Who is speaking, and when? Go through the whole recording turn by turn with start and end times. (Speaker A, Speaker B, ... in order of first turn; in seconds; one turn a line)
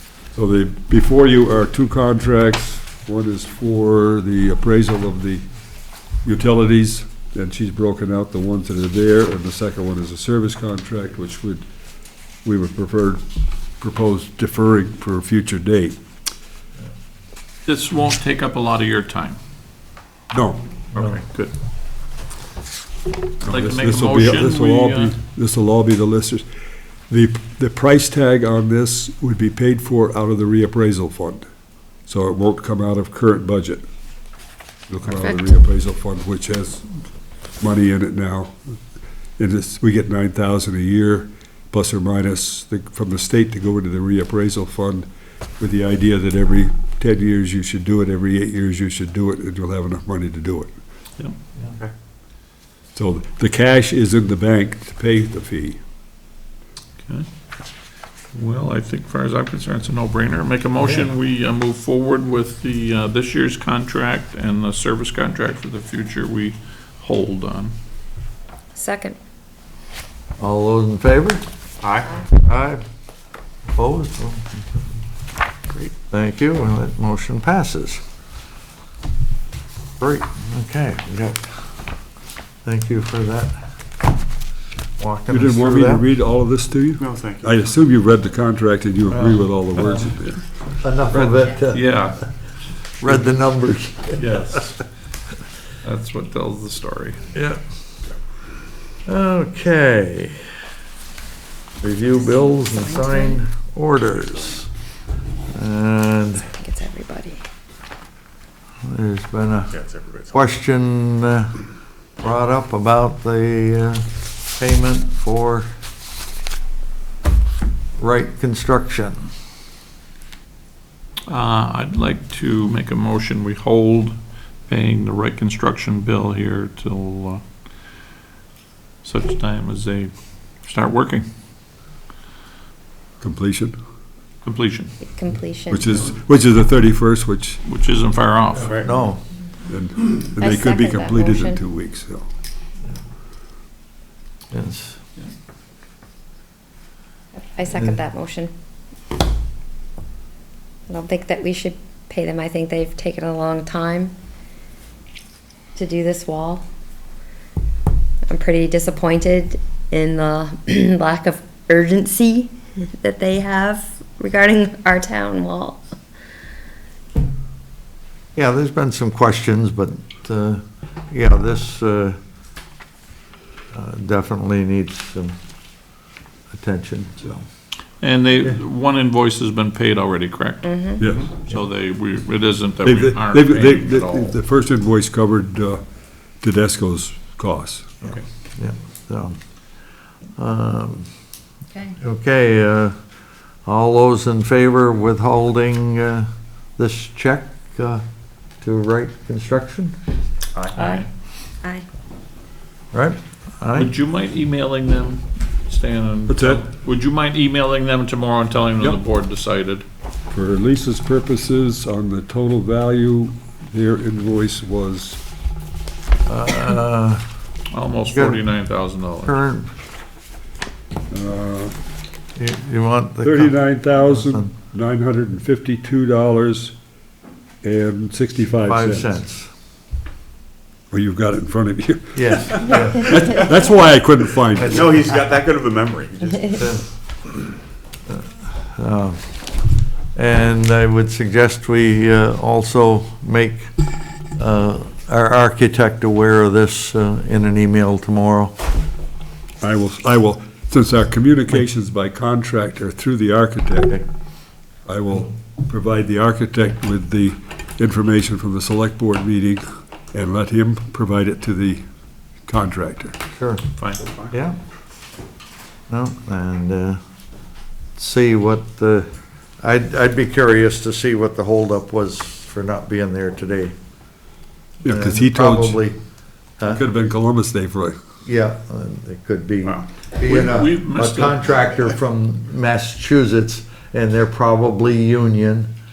Speaker A: 0.3-5.5
Speaker A: 6.2-11.7
Speaker A: 12.4-13.2
Speaker A: 13.8-16.0
Speaker B: 17.7-19.4
Speaker A: 20.3-20.6
Speaker B: 20.9-21.5
Speaker A: 23.4-26.5
Speaker B: 23.4-25.2
Speaker A: 27.1-31.5
Speaker A: 32.0-33.9
Speaker A: 34.9-36.9
Speaker A: 37.6-38.8
Speaker A: 39.4-45.1
Speaker A: 45.6-50.7
Speaker A: 52.9-55.8
Speaker B: 58.3-67.8
Speaker C: 68.8-69.2
Speaker D: 70.4-71.4
Speaker E: 71.8-72.2
Speaker D: 72.3-72.8
Speaker D: 73.7-74.8
Speaker D: 76.1-78.0
Speaker D: 80.0-81.5
Speaker D: 82.6-83.6
Speaker D: 85.0-86.0
Speaker A: 85.3-90.4
Speaker E: 87.0-87.6
Speaker D: 89.1-89.4
Speaker D: 90.8-92.0
Speaker B: 91.1-92.2
Speaker D: 93.0-94.5
Speaker B: 94.2-94.9
Speaker B: 95.8-97.2
Speaker D: 97.3-97.6
Speaker D: 99.1-100.4
Speaker D: 101.8-104.7
Speaker C: 102.6-103.4
Speaker D: 105.5-106.5
Speaker C: 106.5-107.4
Speaker D: 108.8-111.6
Speaker E: 109.8-110.3
Speaker D: 112.2-115.7
Speaker D: 118.0-119.3
Speaker B: 121.3-127.4
Speaker B: 129.0-130.1
Speaker B: 130.6-131.3
Speaker A: 133.2-133.8
Speaker B: 134.4-134.9
Speaker C: 135.0-135.9
Speaker A: 135.7-137.6
Speaker B: 137.7-138.8
Speaker E: 138.6-139.0
Speaker D: 138.7-139.2
Speaker A: 139.7-142.3
Speaker C: 140.4-141.6
Speaker D: 144.5-145.0
Speaker C: 147.5-148.5
Speaker C: 150.9-154.2
Speaker C: 155.8-156.7
Speaker C: 158.3-165.8
Speaker D: 168.3-172.2
Speaker D: 173.7-175.3
Speaker D: 176.5-177.4
Speaker B: 178.0-184.3
Speaker C: 180.6-181.0
Speaker A: 181.0-181.3
Speaker A: 182.8-185.8
Speaker A: 186.4-187.9
Speaker D: 188.0-189.4
Speaker D: 190.4-191.1
Speaker D: 191.9-193.0
Speaker D: 193.7-198.0
Speaker D: 198.6-199.9
Speaker B: 200.7-201.1
Speaker C: 200.8-201.1
Speaker C: 201.6-201.9
Speaker D: 202.9-203.9
Speaker B: 203.8-209.8
Speaker A: 206.3-206.7
Speaker A: 210.3-215.2
Speaker D: 216.3-217.2
Speaker B: 217.7-219.4
Speaker D: 218.1-218.4
Speaker D: 219.2-219.7
Speaker A: 221.1-221.8
Speaker D: 222.4-224.5
Speaker A: 223.2-226.8
Speaker A: 227.6-229.1
Speaker D: 228.7-229.5
Speaker A: 230.9-234.9
Speaker D: 232.1-233.2
Speaker D: 234.6-235.1
Speaker E: 234.7-236.5
Speaker D: 236.4-236.9
Speaker D: 238.1-239.2
Speaker D: 240.2-243.7
Speaker D: 244.4-248.6
Speaker A: 249.6-254.0
Speaker A: 254.9-261.9
Speaker A: 262.5-263.2
Speaker D: 263.3-263.7
Speaker B: 263.8-264.1
Speaker D: 264.2-264.6
Speaker D: 265.9-267.0
Speaker D: 267.9-273.7
Speaker A: 274.8-275.8
Speaker D: 274.9-276.0
Speaker A: 276.6-278.0
Speaker D: 278.2-285.7
Speaker B: 280.2-281.5